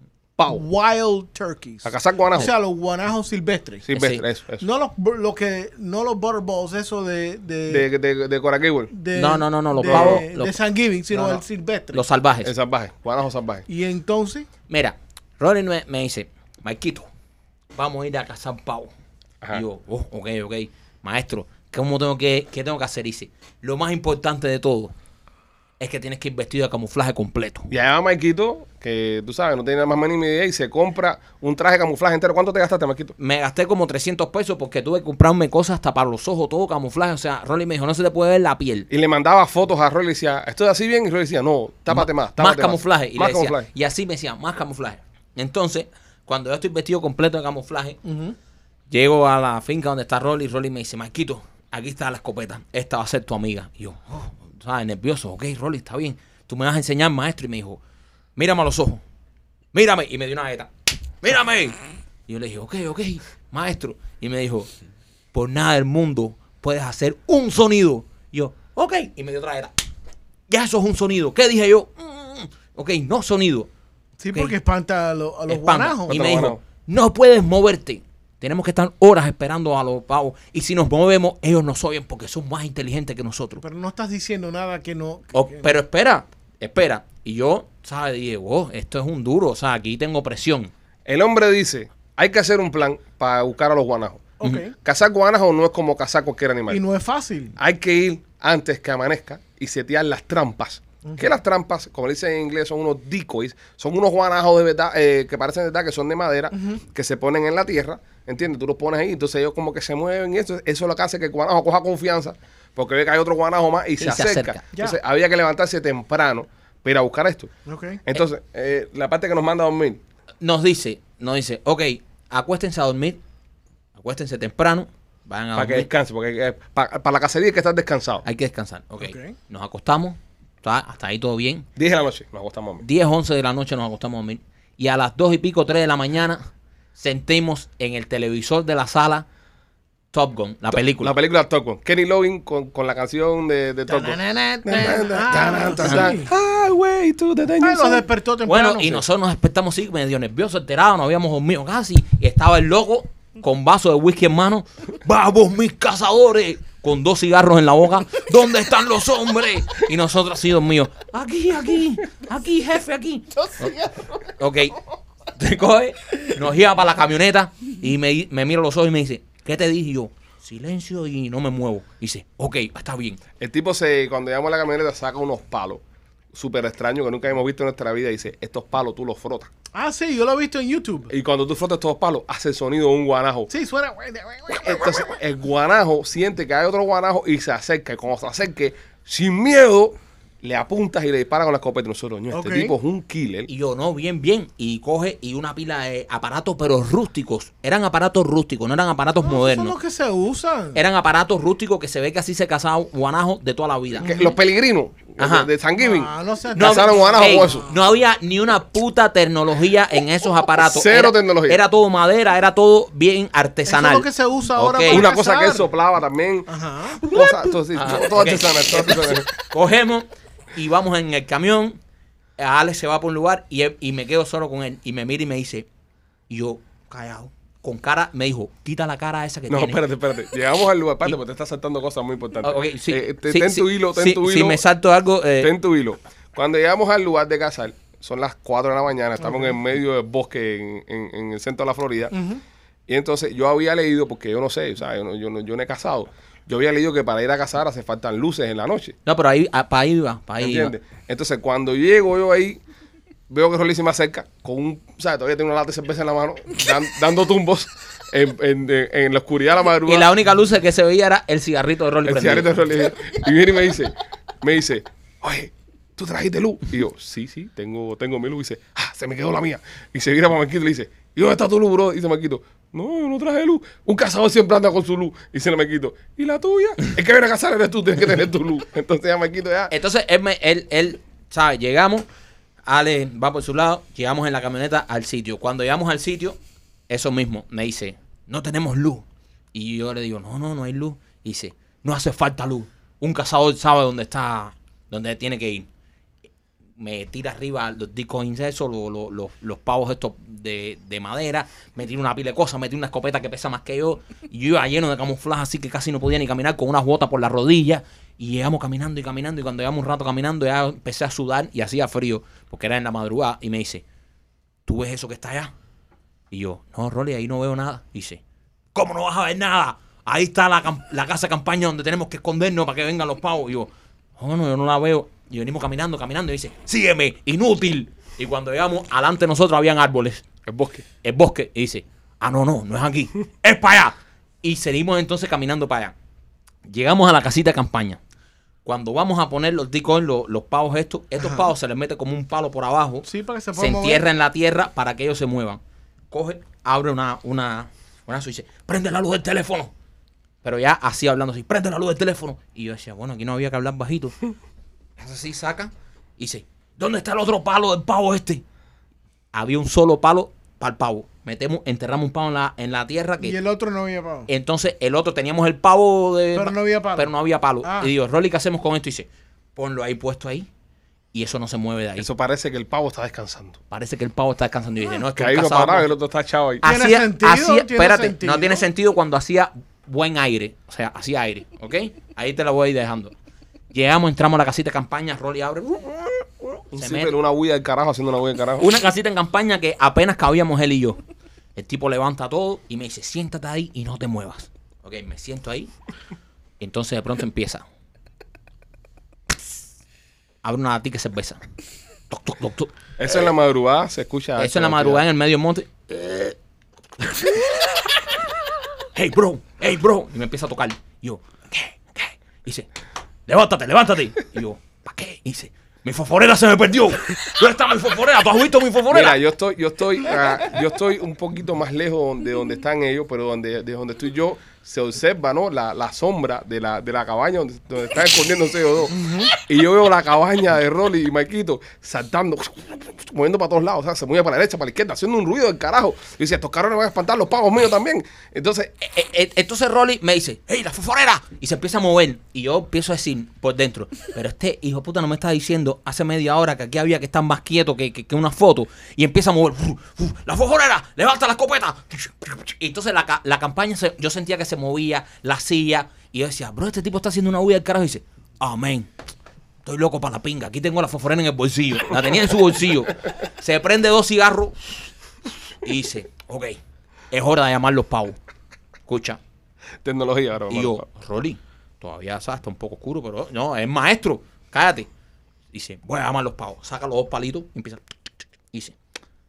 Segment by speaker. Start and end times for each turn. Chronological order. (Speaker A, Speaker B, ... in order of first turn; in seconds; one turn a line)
Speaker A: 0.4-0.6
Speaker B: 0.5-3.9
Speaker A: 1.8-2.5
Speaker A: 3.9-4.7
Speaker C: 3.9-4.2
Speaker B: 4.6-7.9
Speaker A: 7.7-8.9
Speaker B: 8.9-12.0
Speaker C: 9.1-10.6
Speaker A: 9.9-10.2
Speaker A: 11.1-11.4
Speaker C: 11.9-12.5
Speaker A: 12.4-13.6
Speaker B: 13.7-14.5
Speaker C: 14.7-17.1
Speaker C: 17.7-18.9
Speaker C: 19.5-24.9
Speaker C: 25.8-27.7
Speaker A: 27.7-33.1
Speaker C: 33.2-38.9
Speaker A: 38.9-43.7
Speaker C: 41.9-48.0
Speaker B: 48.0-48.4
Speaker C: 48.9-57.8
Speaker C: 58.4-59.0
Speaker C: 59.7-60.7
Speaker C: 61.2-64.7
Speaker C: 65.3-69.7
Speaker C: 70.5-73.7
Speaker B: 74.2-76.2
Speaker C: 75.5-83.6
Speaker A: 76.1-76.6
Speaker B: 83.6-85.7
Speaker C: 85.3-90.7
Speaker A: 91.0-96.8
Speaker B: 94.4-94.7
Speaker B: 96.7-97.5
Speaker A: 97.6-117.5
Speaker C: 114.0-114.6
Speaker B: 117.7-118.0
Speaker A: 118.0-120.0
Speaker C: 120.4-123.2
Speaker C: 124.0-125.9
Speaker A: 125.5-128.2
Speaker C: 128.2-131.7
Speaker B: 129.0-129.4
Speaker A: 131.8-132.8
Speaker C: 132.8-136.4
Speaker C: 136.9-139.2
Speaker C: 140.1-141.1
Speaker A: 140.7-148.1
Speaker B: 143.9-146.3
Speaker C: 145.8-146.1
Speaker B: 147.6-149.0
Speaker C: 148.4-164.8
Speaker C: 165.3-173.2
Speaker A: 173.4-175.8
Speaker A: 176.3-179.5
Speaker B: 179.7-181.1
Speaker A: 181.1-183.5
Speaker B: 183.5-185.0
Speaker A: 184.6-193.5
Speaker B: 192.3-192.7
Speaker C: 193.5-199.8
Speaker B: 199.2-200.8
Speaker C: 200.7-204.1
Speaker B: 204.0-204.4
Speaker A: 204.0-207.6
Speaker C: 205.2-205.5
Speaker B: 205.8-207.8
Speaker C: 206.5-215.1
Speaker A: 210.5-211.6
Speaker B: 213.7-215.6
Speaker A: 214.9-216.5
Speaker B: 216.5-217.3
Speaker A: 217.0-219.3
Speaker C: 217.7-221.8
Speaker C: 222.4-225.7
Speaker C: 226.3-229.8
Speaker A: 229.5-234.6
Speaker C: 232.4-235.5
Speaker A: 235.4-242.2
Speaker B: 239.2-239.5
Speaker B: 242.1-242.4
Speaker A: 242.9-249.0
Speaker C: 249.1-250.7
Speaker A: 250.4-252.6
Speaker A: 253.3-260.1
Speaker C: 259.9-262.6
Speaker A: 262.1-279.7
Speaker C: 279.7-282.1
Speaker C: 282.7-286.4
Speaker C: 286.9-295.7
Speaker C: 296.8-313.8
Speaker C: 314.6-315.5
Speaker C: 316.3-318.2
Speaker C: 318.7-330.2
Speaker A: 330.4-330.8
Speaker C: 331.0-335.9
Speaker C: 336.6-338.0
Speaker C: 338.6-345.6
Speaker B: 343.0-344.1
Speaker C: 346.1-349.7
Speaker C: 350.4-354.2
Speaker C: 355.0-358.4
Speaker C: 359.3-363.4
Speaker B: 363.2-364.3
Speaker C: 364.3-370.5
Speaker B: 366.3-367.1
Speaker B: 367.6-367.9
Speaker C: 371.1-372.1
Speaker A: 372.0-373.6
Speaker C: 373.7-375.9
Speaker A: 375.1-376.6
Speaker C: 376.6-383.1
Speaker B: 376.6-378.6
Speaker C: 383.7-387.1
Speaker A: 386.7-388.7
Speaker C: 388.6-391.0
Speaker C: 391.6-395.7
Speaker C: 396.6-397.6
Speaker C: 400.4-401.4
Speaker C: 402.1-402.7
Speaker A: 403.0-405.0
Speaker C: 404.4-406.3
Speaker C: 407.1-407.8
Speaker C: 408.9-412.7
Speaker C: 413.3-419.2
Speaker A: 418.9-438.8
Speaker B: 428.9-429.3
Speaker C: 438.8-458.9
Speaker C: 459.6-464.7
Speaker C: 465.6-466.6
Speaker C: 467.1-468.2
Speaker C: 468.9-469.2
Speaker A: 469.8-470.8
Speaker C: 470.5-474.9
Speaker C: 475.5-477.8